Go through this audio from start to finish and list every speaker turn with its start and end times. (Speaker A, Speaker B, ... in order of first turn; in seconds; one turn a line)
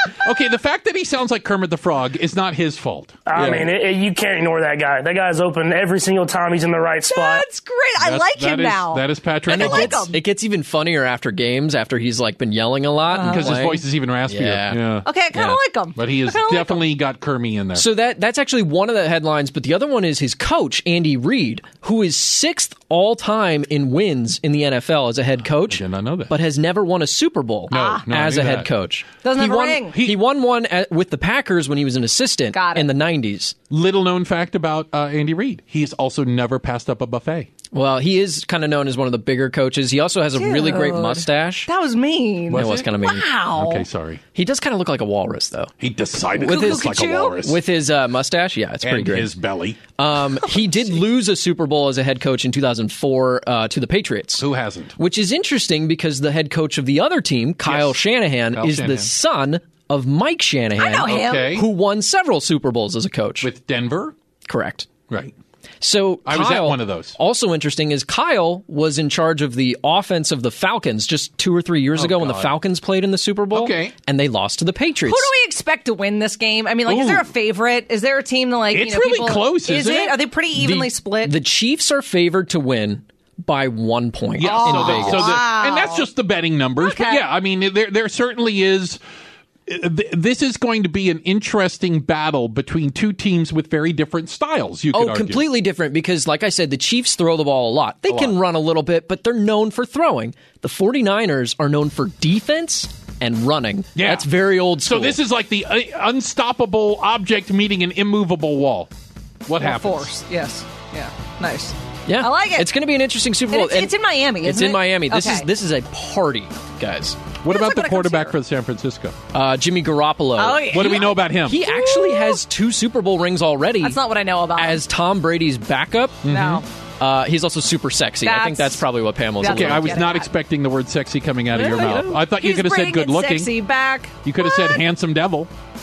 Speaker A: 0.2-3.2
Speaker B: 3.3-7.5
Speaker C: 3.3-3.7
Speaker D: 7.0-10.2
Speaker A: 8.0-10.1
Speaker C: 9.5-15.6
Speaker D: 13.1-13.7
Speaker A: 13.1-15.1
Speaker D: 15.0-16.8
Speaker A: 15.9-17.9
Speaker C: 17.7-33.5
Speaker A: 25.6-26.3
Speaker D: 27.7-28.0
Speaker A: 27.7-28.7
Speaker D: 29.2-30.0
Speaker D: 32.5-32.9
Speaker A: 33.7-37.5
Speaker C: 37.7-41.7
Speaker D: 40.3-43.9
Speaker A: 42.5-42.9
Speaker C: 42.5-43.2
Speaker A: 43.5-44.2
Speaker C: 44.3-45.7
Speaker A: 45.8-47.6
Speaker D: 46.3-47.4
Speaker C: 46.4-49.3
Speaker A: 48.8-49.8
Speaker C: 50.0-63.5
Speaker A: 54.4-54.9
Speaker A: 57.6-58.0
Speaker A: 58.5-59.1
Speaker D: 60.8-61.5
Speaker A: 61.0-61.7
Speaker A: 63.4-64.1
Speaker C: 64.5-64.9
Speaker C: 65.8-75.3
Speaker A: 66.2-67.2
Speaker A: 71.9-72.5
Speaker A: 73.5-73.9
Speaker D: 75.0-81.3
Speaker A: 76.8-77.3
Speaker A: 78.7-80.2
Speaker C: 80.5-85.3
Speaker A: 84.4-89.0
Speaker D: 84.4-86.0
Speaker D: 86.8-87.2
Speaker A: 89.7-95.5
Speaker C: 94.9-105.2
Speaker A: 98.0-98.4
Speaker A: 103.9-108.9
Speaker A: 109.5-110.1
Speaker D: 109.6-112.7
Speaker C: 112.0-117.2
Speaker D: 113.5-115.5
Speaker A: 117.4-119.2
Speaker D: 117.4-118.4
Speaker C: 119.3-120.8
Speaker D: 120.3-122.4
Speaker A: 120.7-121.6
Speaker C: 121.4-124.0
Speaker D: 123.8-124.8
Speaker C: 124.5-126.2
Speaker A: 126.2-126.6
Speaker D: 126.3-126.7
Speaker C: 127.0-130.0
Speaker D: 128.2-128.8
Speaker D: 129.4-130.3
Speaker A: 129.4-133.5
Speaker D: 131.5-134.8
Speaker C: 131.6-132.1
Speaker A: 134.2-135.5